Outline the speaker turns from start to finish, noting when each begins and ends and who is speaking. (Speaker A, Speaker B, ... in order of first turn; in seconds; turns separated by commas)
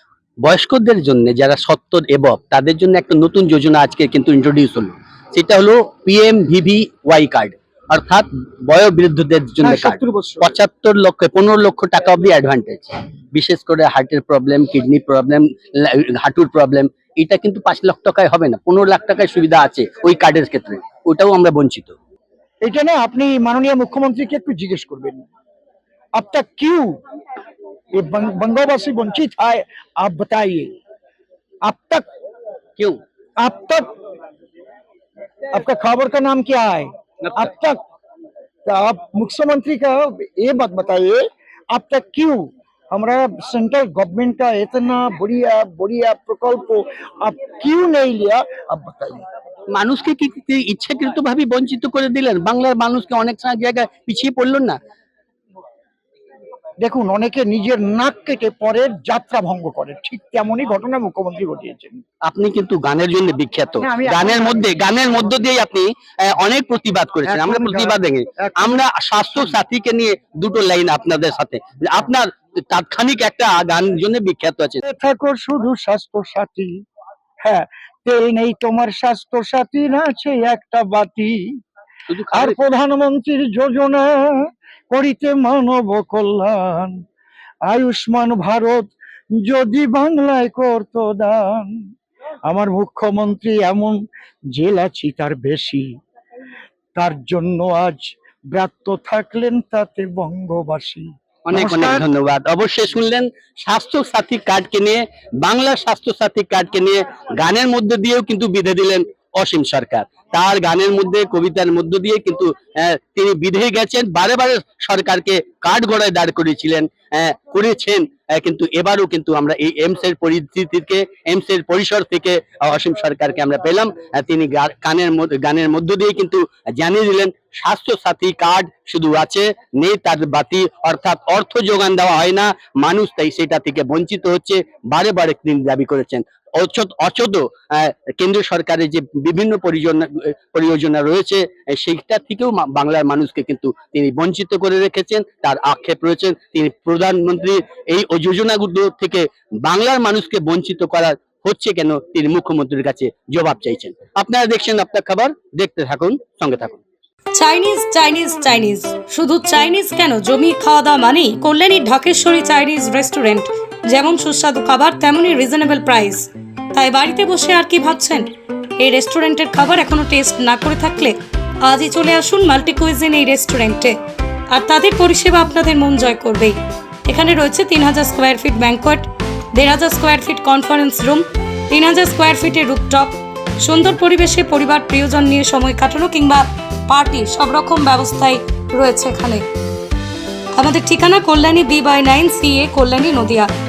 Speaker A: 0.5-21.9, Speaker B: 9.6-10.6, Speaker B: 22.6-25.2, Speaker B: 26.2-27.0, Speaker B: 28.0-30.7, Speaker B: 31.7-32.0, Speaker B: 33.4-33.9, Speaker B: 35.5-37.8, Speaker B: 38.7-41.2, Speaker B: 41.7-49.2, Speaker A: 49.7-54.8, Speaker B: 56.8-62.0, Speaker A: 62.3-74.8, Speaker B: 63.8-64.8, Speaker B: 67.2-69.6, Speaker B: 74.8-76.7, Speaker B: 77.5-81.4, Speaker A: 82.1-82.6, Speaker B: 82.3-84.1, Speaker B: 84.9-87.0, Speaker B: 87.7-88.9, Speaker B: 89.4-91.8, Speaker B: 92.5-94.0, Speaker B: 94.5-95.8, Speaker B: 97.0-102.0, Speaker A: 101.5-156.8, Speaker C: 157.3-174.0, Speaker C: 174.5-189.4, Speaker C: 190.6-193.5